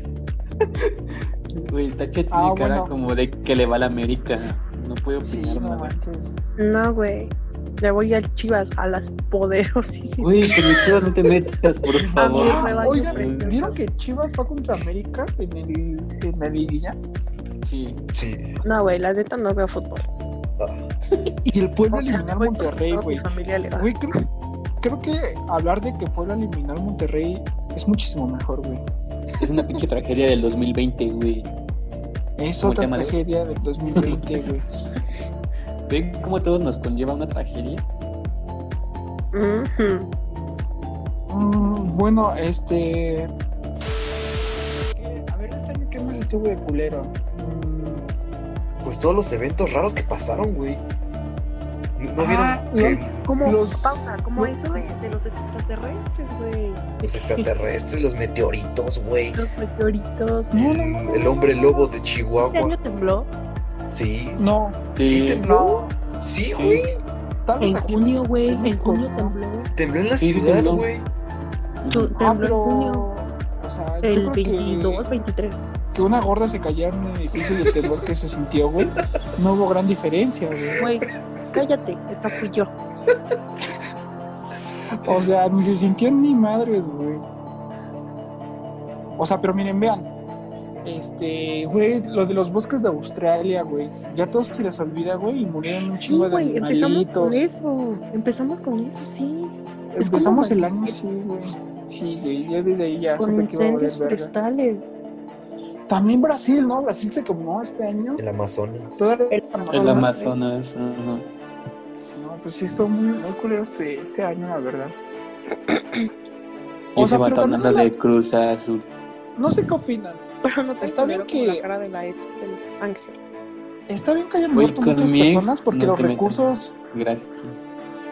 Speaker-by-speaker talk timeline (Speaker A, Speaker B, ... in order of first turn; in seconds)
Speaker A: 0.6-0.9, 1.6-6.0, 10.2-13.6, 17.6-18.0, 29.4-31.5, 32.6-33.2, 33.9-34.4, 35.9-37.8, 65.0-65.5, 66.5-66.8, 70.2-70.9, 71.8-72.1, 109.7-111.2, 117.0-118.9, 124.5-127.6
Speaker B: 2.3-2.9, 5.2-6.3, 12.1-17.0, 21.4-24.1, 24.8-28.8, 32.4-34.7, 41.3-43.3, 44.8-48.1, 52.2-54.9, 60.5-61.0, 64.4-64.9, 65.4-65.9, 67.5-69.4, 72.1-75.1, 75.9-80.8, 85.0-87.2, 89.2-90.1, 90.8-97.4, 99.9-104.3, 105.9-108.2, 109.0-110.2, 112.2-115.0, 117.0-117.9, 119.4-120.2, 120.8-121.6, 123.9-126.7
Speaker C: 6.6-10.6, 12.1-13.8, 18.6-20.1, 21.9-23.9, 39.3-40.1, 53.2-57.5, 59.4-61.9, 62.5-63.3, 67.6-69.7, 71.9-73.1, 74.0-75.7, 80.8-82.7, 96.0-101.0, 103.2-105.0, 109.3-110.3, 120.4-123.2
Speaker D: 18.1-18.5, 20.6-20.8, 48.8-50.8, 52.0-53.1, 57.0-59.5, 60.5-62.8, 63.9-64.4, 65.0-67.0, 69.8-71.1, 77.4-78.0, 108.2-109.1